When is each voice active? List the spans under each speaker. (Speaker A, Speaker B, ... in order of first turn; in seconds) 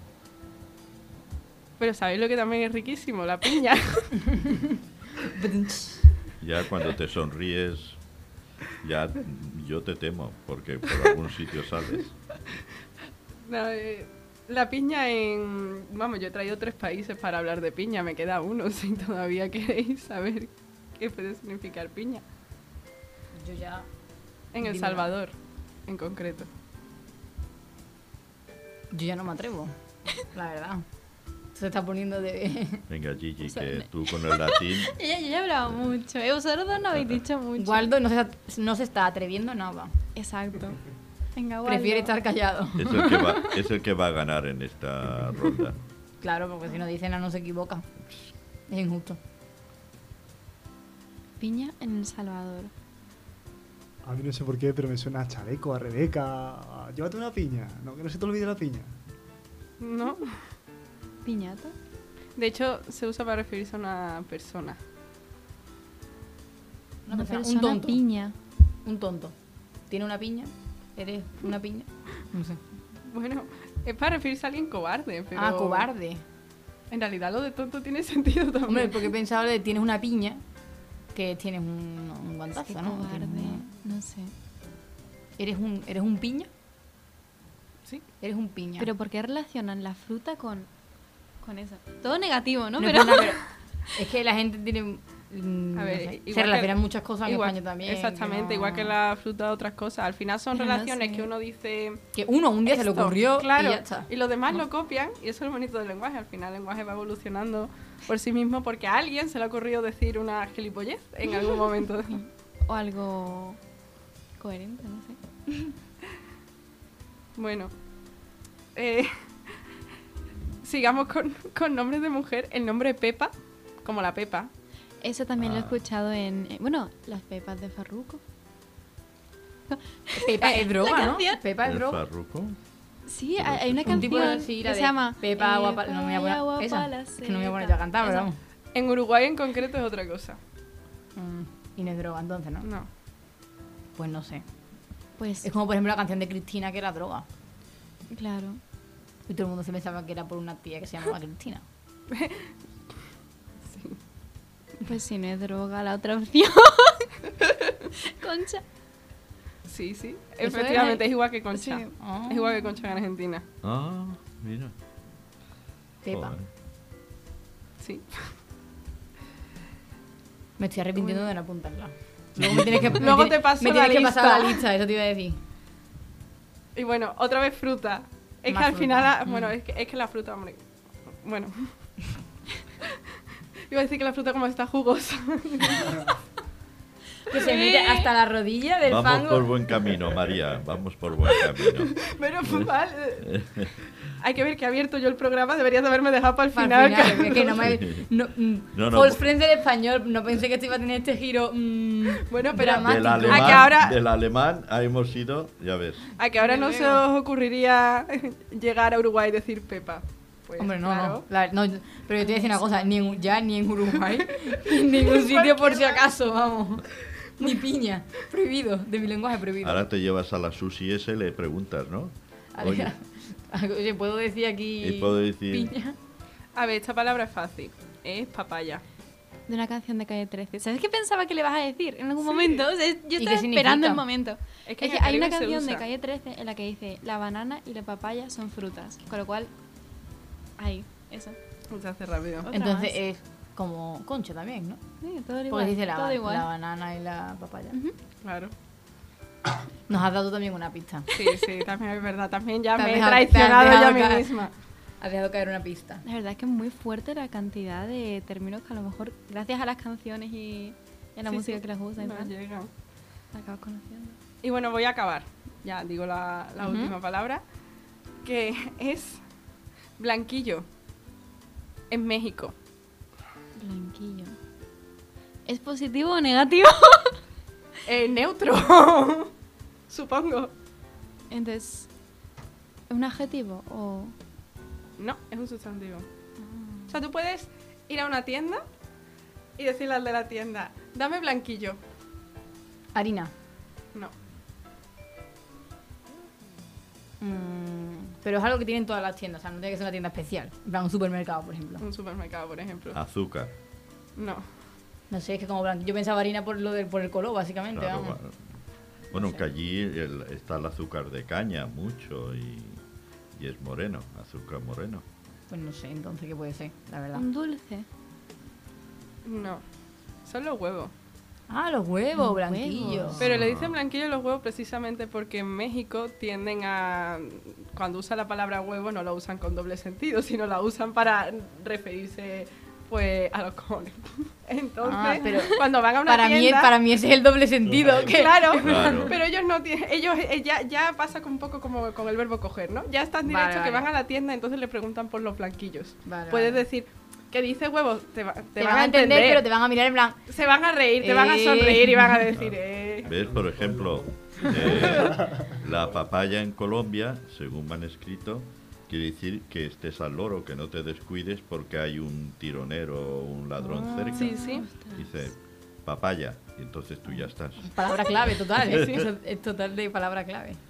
Speaker A: 1.8-4.2, 13.4-22.2, 24.5-25.3, 25.9-26.5, 59.8-60.4, 62.4-64.8, 73.0-75.9, 76.9-79.1, 95.8-102.0, 102.7-112.2, 117.3-117.7, 118.7-119.1, 120.6-123.3, 123.8-124.5, 138.7-140.4, 142.6-142.9, 152.1-152.5, 153.7-154.0, 159.7-163.4, 167.8-168.3, 172.9-174.6, 176.7-181.7, 183.7-186.2, 191.8-193.3, 194.2-197.8, 202.2-204.0, 206.2-211.2, 214.4-216.1, 226.5-228.8, 232.2-232.6, 234.7-235.8, 241.7-242.5, 248.2-248.5, 251.1-254.5, 261.3-262.7, 264.4-267.4, 268.2-269.2, 270.0-270.6, 271.9-272.5, 277.9-279.3, 279.9-280.5, 285.0-286.1, 286.9-288.6, 289.6-291.8, 301.8-303.0, 304.2-304.5, 319.2-319.6, 320.2-320.9, 323.2-336.8, 337.9-349.4, 350.3-353.2, 364.1-364.6
Speaker B: 4.2-6.1, 23.4-23.9, 24.6-25.1, 28.9-30.8, 31.5-32.8, 37.6-39.9, 41.6-43.6, 46.2-47.9, 48.7-49.2, 67.0-68.0, 68.8-69.3, 69.9-72.6, 75.3-76.2, 78.7-80.4, 81.1-83.7, 85.4-86.5, 88.2-88.9, 92.8-99.0, 102.1-104.1, 130.1-132.0, 133.8-138.4, 141.1-142.7, 143.9-144.4, 145.4-147.2, 149.3-151.6, 160.4-161.0, 162.0-162.6, 166.0-166.3, 170.6-175.4, 178.5-179.1, 187.3-189.6, 196.5-203.8, 210.6-219.8, 222.5-225.9, 233.2-234.0, 242.5-244.8, 245.5-247.8, 249.9-251.2, 252.8-254.3, 255.0-256.0, 266.6-266.9, 292.9-293.3, 297.2-301.8, 305.1-308.2, 309.1-309.4, 315.5-317.2, 321.5-323.3, 334.8-339.1, 343.2-343.9, 346.0-346.6, 348.6-350.2, 351.0-352.3, 367.6-370.6
Speaker C: 6.4-8.0, 8.7-12.1, 32.9-34.9, 36.9-37.2, 42.8-45.8, 125.4-125.8, 131.6-132.6, 133.3-134.3, 163.6-164.7, 166.1-166.5, 188.8-192.7, 193.2-193.7, 197.6-198.1, 198.7-199.2, 202.6-206.1, 219.6-222.9, 224.8-225.7, 302.9-303.5, 307.7-308.4, 309.1-312.8, 313.3-315.0, 323.1-323.8, 338.6-339.1, 352.3-364.4, 364.9-369.1
Speaker D: 33.4-37.9, 40.1-40.8, 41.3-42.1, 51.4-52.7, 61.2-61.7, 67.1-68.3, 82.5-84.3, 88.8-90.7, 91.4-93.4, 100.5-101.3, 112.7-113.6, 114.4-115.2, 125.0-128.2, 129.7-131.4, 133.1-138.3, 145.2-145.5, 148.1-148.6, 154.8-157.1, 158.0-158.6, 161.5-162.6, 187.3-188.1, 206.4-207.0, 212.2-212.8, 229.5-239.5, 240.6-241.4, 242.4-242.9, 245.0-246.5, 256.0-262.3, 263.3-264.2, 273.6-274.3, 275.4-277.2, 281.3-281.9, 282.9-284.1, 286.4-287.0, 317.1-317.9, 322.1-323.2, 363.6-365.3
Speaker E: 54.0-58.9